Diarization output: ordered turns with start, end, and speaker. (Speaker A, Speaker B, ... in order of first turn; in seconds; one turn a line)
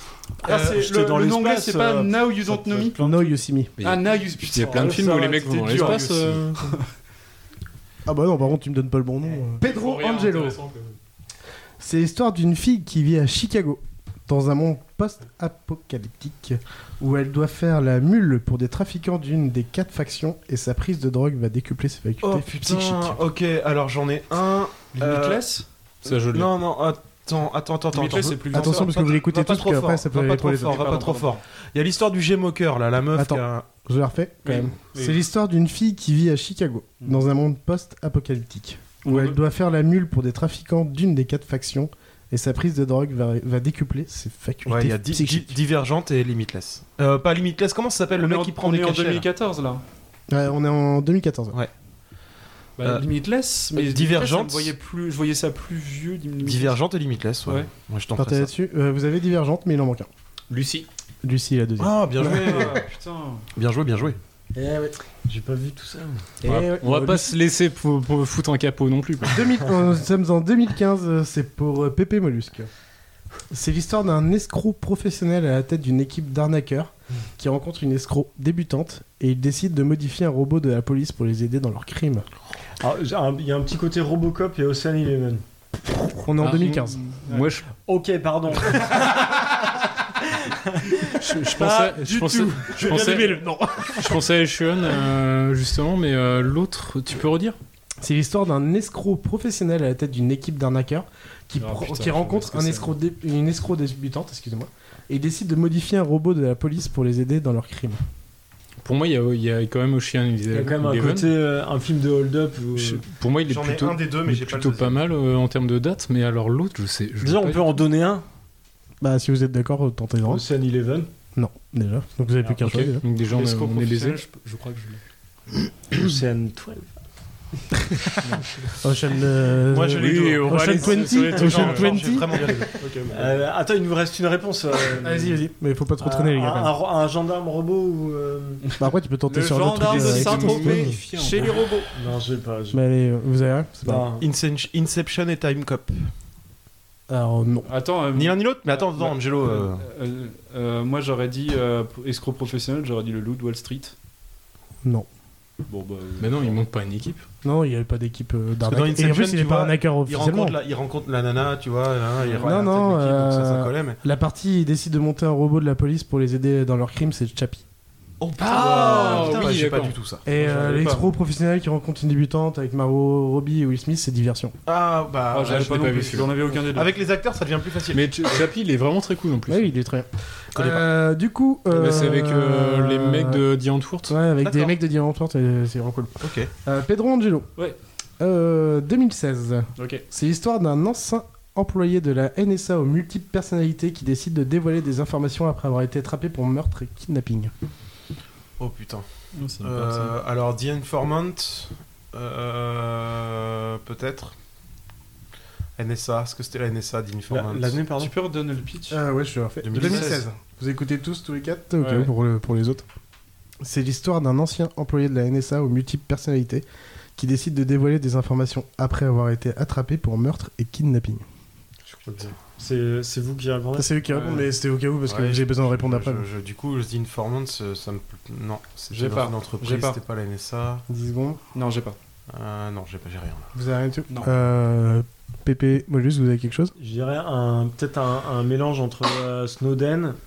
Speaker A: 0.4-3.3
Speaker B: 0.4-3.0
Speaker C: 3.0-3.7
Speaker D: 3.8-6.8
Speaker B: 3.8-6.1
Speaker E: 5.7-6.4
Speaker C: 8.1-10.6
Speaker D: 9.6-10.9
Speaker C: 11.8-23.2
Speaker E: 22.2-25.4
Speaker B: 24.9-25.6
Speaker D: 26.0-26.6
Speaker E: 26.1-33.6
Speaker B: 27.9-28.9
Speaker C: 28.5-30.9
Speaker B: 30.6-31.4
Speaker C: 33.1-45.5
Speaker B: 34.4-35.2
Speaker B: 39.0-39.4
Speaker E: 44.6-49.3
Speaker B: 48.1-49.8
Speaker C: 50.3-51.6
Speaker B: 52.8-56.8
Speaker E: 53.7-54.7
Speaker E: 56.4-58.5
Speaker C: 58.2-60.1
Speaker D: 60.5-60.9
Speaker C: 61.2-62.7
Speaker E: 61.8-62.8
Speaker B: 62.2-63.4
Speaker E: 63.5-64.2
Speaker C: 64.5-64.9
Speaker A: 64.7-66.4
Speaker C: 66.4-67.3
Speaker D: 66.4-69.4
Speaker C: 69.3-72.7
Speaker C: 73.5-82.2
Speaker A: 82.8-85.4
Speaker C: 85.9-87.0
Speaker D: 86.4-87.7
Speaker A: 87.7-89.6
Speaker A: 90.3-91.2
Speaker D: 91.2-93.4
Speaker B: 91.6-92.5
Speaker C: 92.0-94.2
Speaker A: 92.8-93.2
Speaker D: 93.9-97.6
Speaker C: 98.0-108.0
Speaker B: 101.6-102.9
Speaker D: 108.8-111.4
Speaker A: 110.5-113.0
Speaker D: 112.7-117.8
Speaker E: 113.5-115.0
Speaker A: 117.2-118.2
Speaker C: 119.0-120.4
Speaker A: 120.2-121.1
Speaker C: 121.3-123.0
Speaker D: 122.6-124.2
Speaker B: 123.3-125.0
Speaker A: 125.9-126.9
Speaker C: 128.8-132.6
Speaker E: 129.7-132.7
Speaker D: 129.9-132.0
Speaker B: 132.8-133.4
Speaker A: 133.1-135.4
Speaker C: 135.0-136.7
Speaker A: 136.0-138.7
Speaker C: 138.8-140.9
Speaker B: 139.3-141.9
Speaker D: 139.7-141.6
Speaker A: 141.9-142.8
Speaker C: 142.7-144.1
Speaker A: 143.8-144.2
Speaker E: 144.2-146.1
Speaker C: 147.1-147.7
Speaker B: 147.7-153.9
Speaker E: 148.1-149.8
Speaker B: 155.7-156.6
Speaker D: 156.2-157.2
Speaker C: 157.4-160.6
Speaker E: 158.6-164.0
Speaker B: 162.2-162.5
Speaker C: 162.4-167.6
Speaker E: 168.2-170.2
Speaker D: 168.4-169.9
Speaker C: 170.2-174.6
Speaker B: 170.3-171.1
Speaker E: 174.7-178.5
Speaker B: 175.3-176.9
Speaker D: 175.4-176.3
Speaker D: 177.9-179.7
Speaker C: 179.5-183.4
Speaker E: 180.5-180.8
Speaker D: 181.7-184.2
Speaker C: 184.1-187.5
Speaker E: 184.4-184.7
Speaker E: 186.2-186.5
Speaker C: 188.2-197.5
Speaker B: 189.8-190.0
Speaker E: 198.6-199.1
Speaker B: 199.3-200.1
Speaker E: 199.6-204.3
Speaker E: 205.8-207.8
Speaker A: 207.3-208.1
Speaker B: 208.0-209.0
Speaker C: 208.9-212.8
Speaker E: 209.6-210.2
Speaker B: 209.7-210.2
Speaker B: 211.8-212.1
Speaker C: 213.6-216.6
Speaker C: 217.2-221.2
Speaker A: 221.9-224.0
Speaker C: 223.8-226.2
Speaker B: 224.1-224.4
Speaker E: 225.1-230.8
Speaker B: 228.9-230.0
Speaker C: 230.9-231.4
Speaker B: 231.5-231.9
Speaker E: 232.3-233.5
Speaker C: 233.5-236.7
Speaker A: 236.8-240.2